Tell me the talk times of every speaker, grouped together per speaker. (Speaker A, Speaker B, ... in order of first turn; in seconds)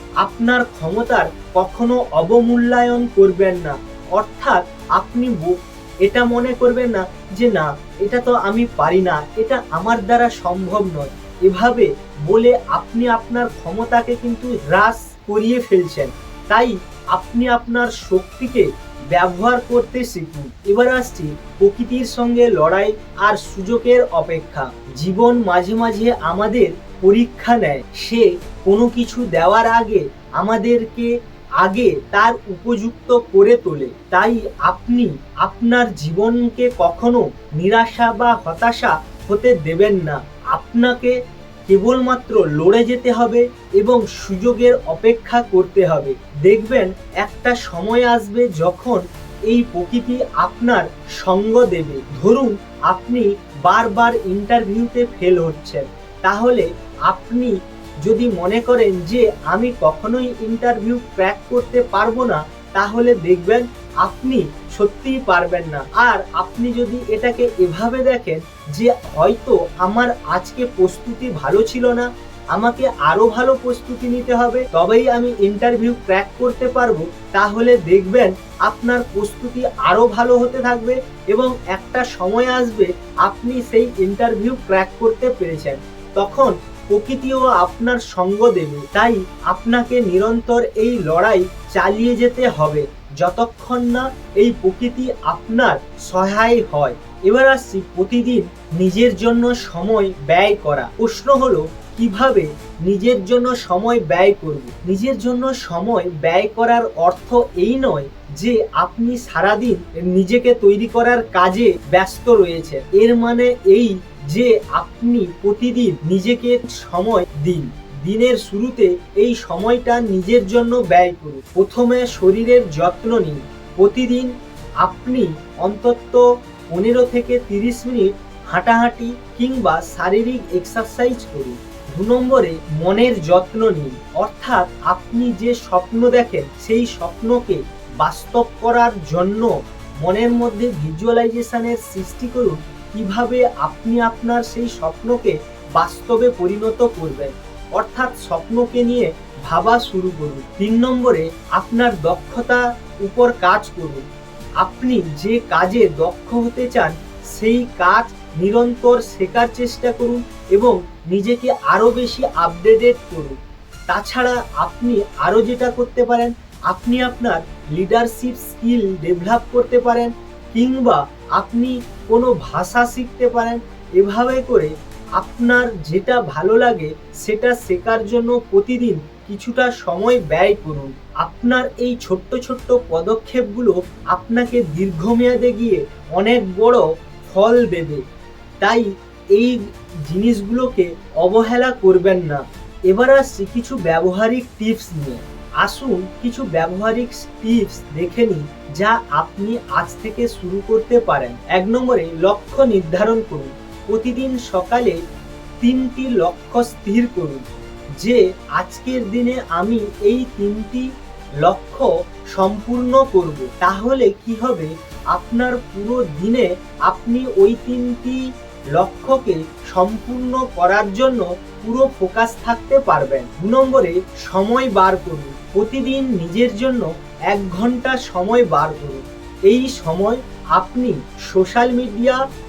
Speaker A: 0.2-154.1, 154.6-188.0, 188.6-205.0, 205.6-207.4, 208.0-210.9, 211.4-232.2